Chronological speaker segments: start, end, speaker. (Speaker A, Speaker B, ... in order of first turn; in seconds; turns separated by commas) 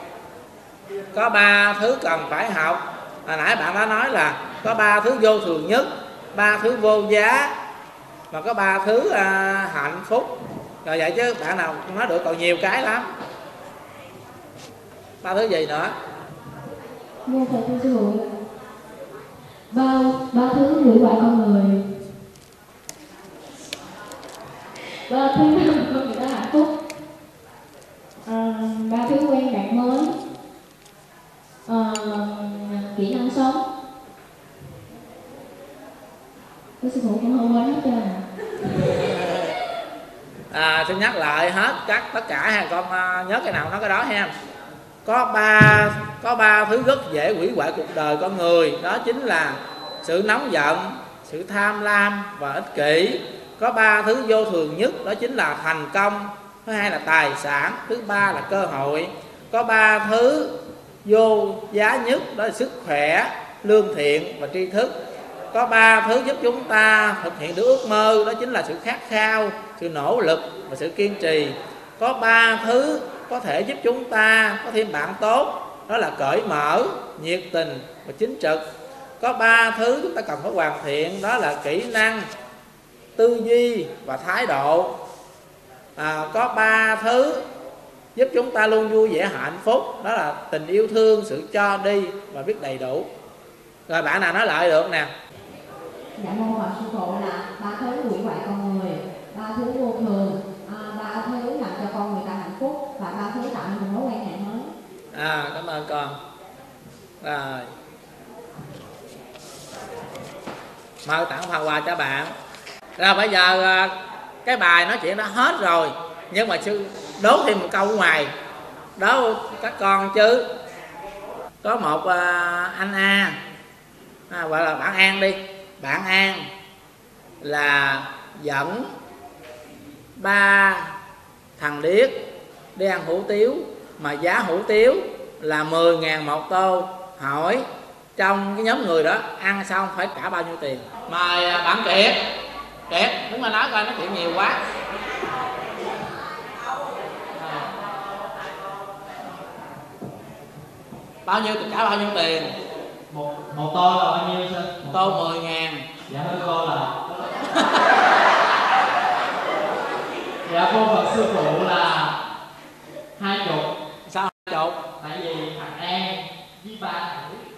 Speaker A: 1.1-7.5, Speaker A: 8.3-13.1, Speaker A: 15.2-15.9, Speaker B: 17.2-18.3, Speaker B: 19.7-22.0, Speaker B: 25.1-26.7, Speaker B: 28.2-30.1, Speaker B: 31.6-33.6, Speaker B: 36.8-38.2, Speaker A: 38.9-39.6, Speaker A: 40.5-44.3, Speaker A: 45.0-64.9, Speaker A: 65.5-78.6, Speaker A: 79.2-82.3, Speaker A: 83.2-84.9, Speaker A: 86.0-87.5, Speaker A: 88.1-93.1, Speaker A: 93.9-95.1, Speaker C: 96.2-104.7, Speaker A: 105.1-106.2, Speaker A: 107.2-107.7, Speaker A: 111.0-112.3, Speaker A: 113.0-118.3, Speaker A: 119.0-120.5, Speaker A: 121.6-123.4, Speaker A: 124.3-126.4, Speaker A: 127.4-128.9, Speaker A: 130.2-130.9, Speaker A: 131.6-132.2, Speaker A: 132.7-137.7, Speaker A: 138.2-142.2, Speaker A: 142.9-144.6, Speaker A: 151.2-152.5, Speaker D: 153.1-154.9, Speaker A: 154.9-155.8, Speaker D: 156.1-156.9, Speaker D: 160.5-162.1, Speaker D: 163.2-163.7, Speaker A: 164.1-164.8, Speaker D: 165.0-166.1, Speaker D: 166.6-167.2